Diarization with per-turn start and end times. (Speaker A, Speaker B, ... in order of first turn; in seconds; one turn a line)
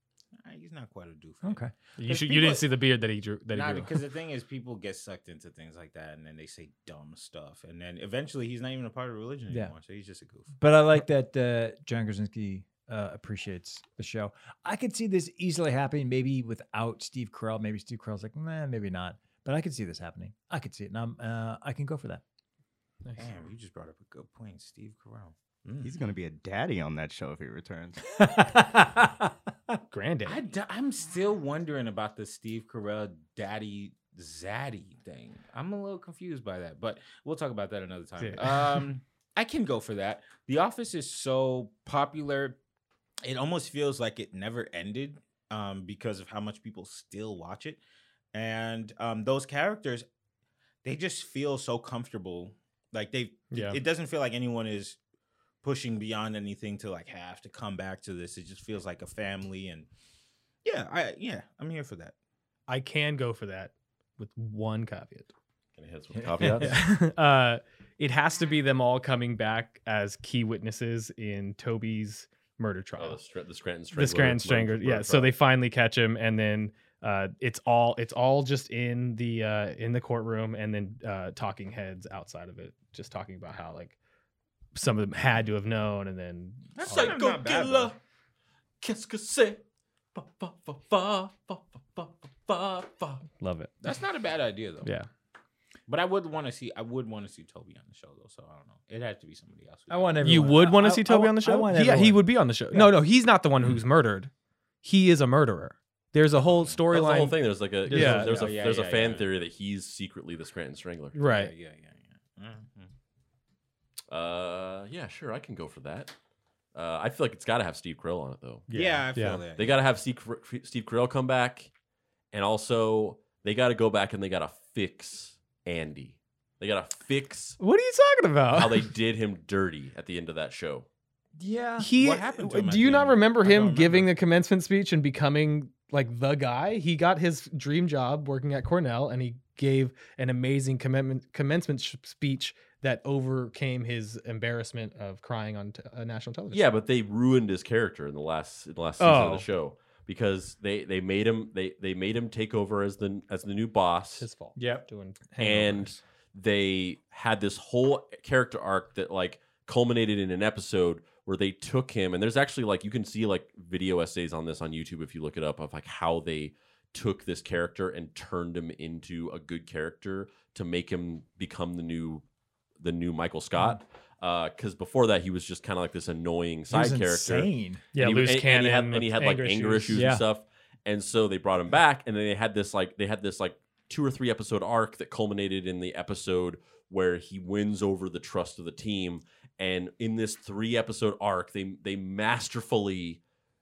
Speaker A: 0.4-2.6
Speaker B: 1.4-1.7
Speaker C: 2.0-4.0
Speaker A: 3.5-10.5
Speaker B: 10.6-22.2
Speaker A: 23.2-26.0
Speaker D: 25.8-28.0
Speaker B: 28.1-29.8
Speaker C: 29.9-30.4
Speaker A: 30.2-42.6
Speaker C: 38.2-38.9
Speaker A: 43.2-47.8
Speaker A: 48.3-50.0
Speaker A: 50.8-55.0
Speaker C: 53.5-53.8
Speaker A: 55.6-59.9
Speaker A: 60.6-62.1
Speaker C: 62.7-65.3
Speaker E: 65.7-66.8
Speaker B: 66.1-66.8
Speaker C: 66.4-73.2
Speaker E: 73.0-75.3
Speaker C: 73.9-84.0
Speaker C: 84.7-87.2
Speaker A: 86.8-87.9
Speaker E: 86.8-88.0
Speaker E: 88.8-89.6
Speaker E: 90.1-93.2
Speaker C: 93.4-93.7
Speaker A: 93.8-94.9
Speaker C: 94.8-95.1
Speaker A: 95.9-100.5
Speaker B: 99.9-103.0
Speaker C: 100.2-104.3
Speaker C: 104.8-108.5
Speaker A: 106.4-106.8
Speaker E: 106.9-111.2
Speaker B: 107.9-108.3
Speaker A: 108.3-109.3
Speaker C: 111.1-111.5
Speaker A: 111.2-112.9
Speaker E: 114.1-116.1
Speaker E: 116.7-118.7
Speaker A: 118.7-119.7
Speaker C: 119.1-119.4
Speaker E: 119.4-121.7
Speaker E: 122.3-127.6
Speaker C: 127.6-128.9
Speaker E: 128.5-130.9
Speaker B: 131.4-131.9
Speaker C: 131.8-146.7
Speaker A: 131.9-134.1
Speaker E: 146.5-154.3
Speaker C: 149.0-149.4
Speaker C: 154.2-156.0
Speaker B: 154.6-154.8
Speaker E: 155.4-172.2
Speaker E: 172.8-193.2
Speaker B: 173.6-173.8
Speaker B: 176.7-177.8
Speaker C: 177.9-180.1
Speaker B: 179.9-180.2